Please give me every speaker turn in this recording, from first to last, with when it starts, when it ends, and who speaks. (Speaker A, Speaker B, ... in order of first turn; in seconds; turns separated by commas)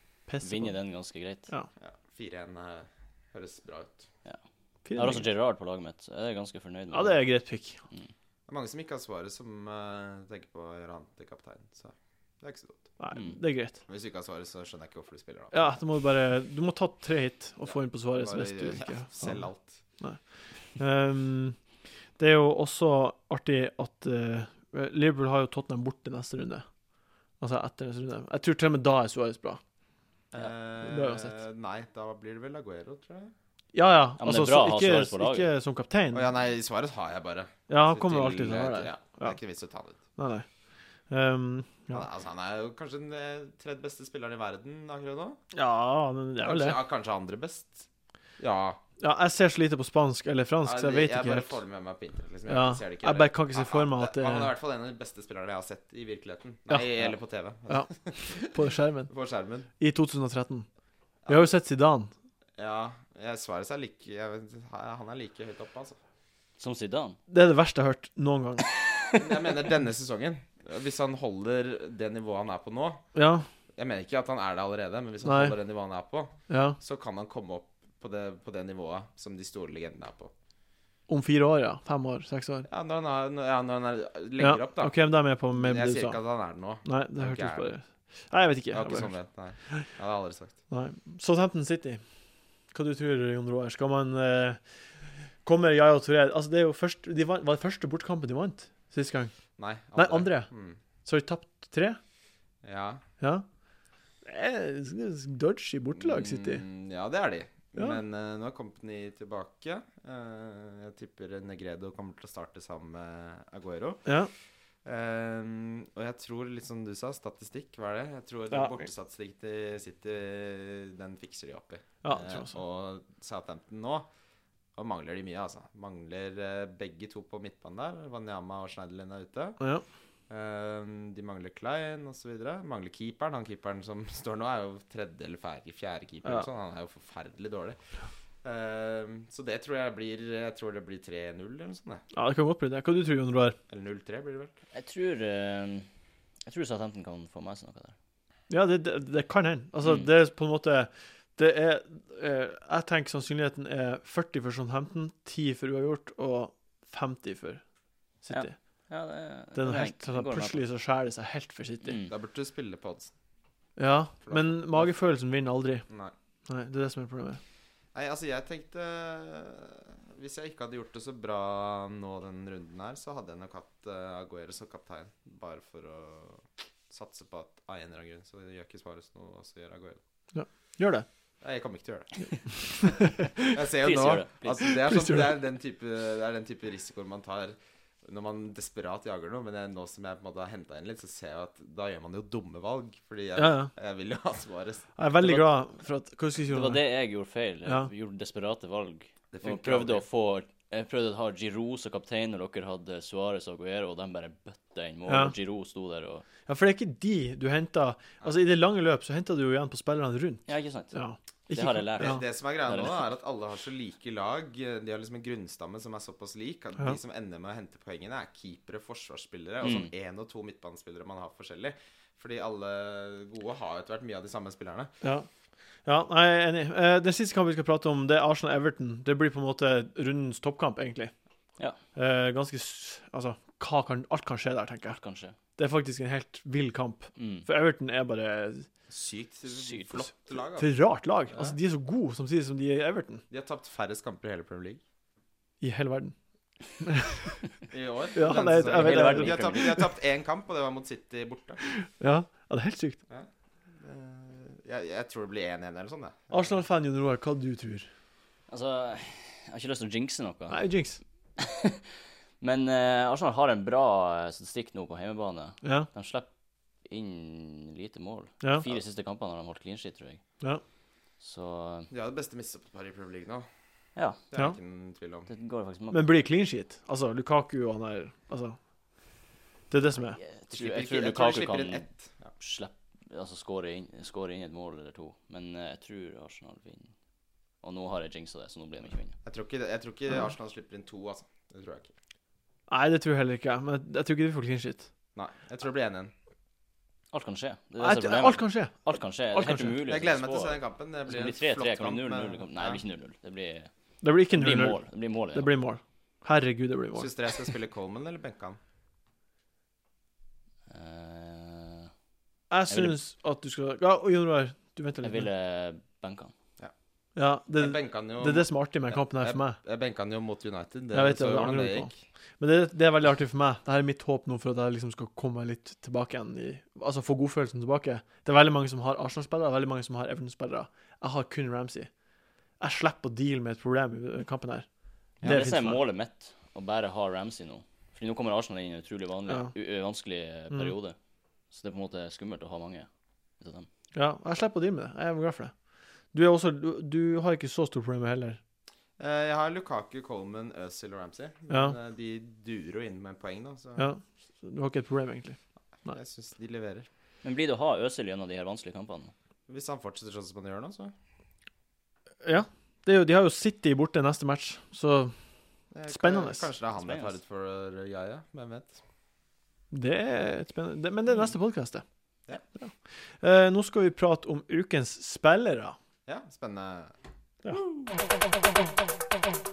Speaker A: 0.3-0.7, Speaker B: 0.4-1.5, Speaker C: 1.8-4.1, Speaker A: 4.8-5.3, Speaker B: 5.0-7.2, Speaker A: 6.9-7.8, Speaker C: 8.5-12.9, Speaker A: 13.0-13.8, Speaker C: 13.9-15.8, Speaker A: 15.5-19.4, Speaker C: 17.6-19.8, Speaker A: 20.8-21.6, Speaker A: 22.2-26.6, Speaker A: 27.4-29.6, Speaker C: 30.3-33.3, Speaker A: 30.8-31.4, Speaker A: 33.7-36.3, Speaker B: 34.2-35.5, Speaker C: 36.1-40.0, Speaker A: 37.7-39.4, Speaker A: 40.1-40.5, Speaker A: 41.1-42.0, Speaker C: 41.9-45.4, Speaker A: 45.5-46.8, Speaker C: 46.4-47.9, Speaker C: 48.4-48.8, Speaker A: 49.0-51.6, Speaker C: 50.6-58.5, Speaker A: 52.5-54.5, Speaker A: 57.7-59.1, Speaker C: 59.1-59.7, Speaker A: 59.8-60.7, Speaker C: 61.2-61.5, Speaker A: 61.3-62.1, Speaker C: 62.6-66.0, Speaker B: 66.6-67.2, Speaker A: 67.3-68.7, Speaker C: 69.1-73.0, Speaker A: 73.1-73.5, Speaker C: 73.8-80.3, Speaker A: 75.2-75.5, Speaker A: 76.5-76.8, Speaker A: 81.1-82.7, Speaker C: 82.7-85.0, Speaker A: 84.4-86.2, Speaker C: 85.5-87.7, Speaker A: 86.8-89.1, Speaker C: 88.7-90.5, Speaker A: 90.7-92.0, Speaker A: 92.7-94.6, Speaker A: 95.4-99.3, Speaker C: 99.6-100.8, Speaker A: 99.9-100.5, Speaker A: 101.0-102.0, Speaker C: 102.6-103.0, Speaker A: 104.2-106.6, Speaker C: 106.0-114.0, Speaker A: 114.0-114.3, Speaker C: 114.8-124.1, Speaker A: 118.5-118.8, Speaker A: 122.0-122.5, Speaker C: 124.8-129.6, Speaker C: 130.3-137.8, Speaker C: 138.4-142.0, Speaker A: 142.1-143.6, Speaker C: 143.7-144.5, Speaker B: 144.7-145.9, Speaker B: 146.4-147.9, Speaker A: 148.5-157.6, Speaker A: 158.2-158.6, Speaker B: 158.3-160.6, Speaker A: 159.5-162.0, Speaker B: 161.8-162.1, Speaker C: 162.1-163.1, Speaker A: 163.8-165.8, Speaker C: 164.2-165.0, Speaker C: 165.9-166.1, Speaker A: 166.5-167.4, Speaker C: 167.9-180.0, Speaker A: 180.3-181.1, Speaker C: 181.4-194.9, Speaker A: 182.8-183.5, Speaker B: 183.8-184.7, Speaker A: 184.8-185.2, Speaker A: 193.3-193.7, Speaker A: 195.0-196.8, Speaker B: 195.2-195.4, Speaker B: 196.5-206.2, Speaker C: 199.3-200.0, Speaker A: 205.1-205.3, Speaker A: 206.5-212.2, Speaker B: 210.5-210.9, Speaker B: 211.5-213.1, Speaker C: 212.0-224.9, Speaker B: 219.6-219.9, Speaker A: 225.0-225.3, Speaker A: 225.8-231.1, Speaker A: 231.9-235.0, Speaker B: 234.9-235.3, Speaker A: 235.6-238.7, Speaker B: 237.2-237.4, Speaker C: 238.9-240.7, Speaker B: 239.5-240.1, Speaker A: 240.6-243.2, Speaker C: 243.3-244.8, Speaker A: 245.6-246.1, Speaker A: 246.8-247.3, Speaker C: 247.7-251.6, Speaker A: 248.1-249.8, Speaker B: 248.6-249.9, Speaker A: 251.6-253.0, Speaker C: 253.1-256.5, Speaker A: 256.3-257.9, Speaker B: 258.5-260.6, Speaker A: 260.5-261.0, Speaker B: 261.4-261.9, Speaker B: 262.4-266.3, Speaker A: 265.6-265.9, Speaker B: 266.8-270.2, Speaker A: 268.4-268.7, Speaker B: 271.2-271.9, Speaker C: 271.9-273.4, Speaker B: 273.9-274.2, Speaker C: 274.3-275.3, Speaker B: 275.3-276.1, Speaker A: 275.9-278.6, Speaker A: 279.7-280.2, Speaker B: 280.2-281.9, Speaker C: 280.5-282.3, Speaker B: 282.4-286.9, Speaker B: 287.6-289.1, Speaker C: 289.2-291.9, Speaker A: 292.7-294.9, Speaker C: 295.1-296.1, Speaker B: 297.1-303.7, Speaker A: 297.8-299.8, Speaker C: 299.9-302.8, Speaker A: 304.0-304.8, Speaker B: 304.3-305.5, Speaker A: 305.3-307.1, Speaker C: 306.9-308.6, Speaker B: 310.7-311.9, Speaker A: 312.5-315.3, Speaker B: 312.7-313.0, Speaker B: 315.0-316.3, Speaker A: 317.1-319.6, Speaker C: 317.6-321.9, Speaker A: 320.9-331.9, Speaker A: 332.6-334.7, Speaker A: 335.2-335.8, Speaker B: 335.2-340.9, Speaker B: 341.5-342.9, Speaker B: 343.4-343.7, Speaker A: 343.9-345.5, Speaker A: 346.1-348.4, Speaker C: 349.0-353.9, Speaker A: 351.5-351.7, Speaker A: 353.8-355.9, Speaker C: 355.8-356.9, Speaker B: 357.2-359.1, Speaker C: 359.5-360.9, Speaker A: 362.2-365.1, Speaker C: 365.7-368.8, Speaker A: 365.9-366.5, Speaker B: 366.8-367.1, Speaker A: 369.7-371.8, Speaker A: 372.6-375.8, Speaker C: 376.1-376.9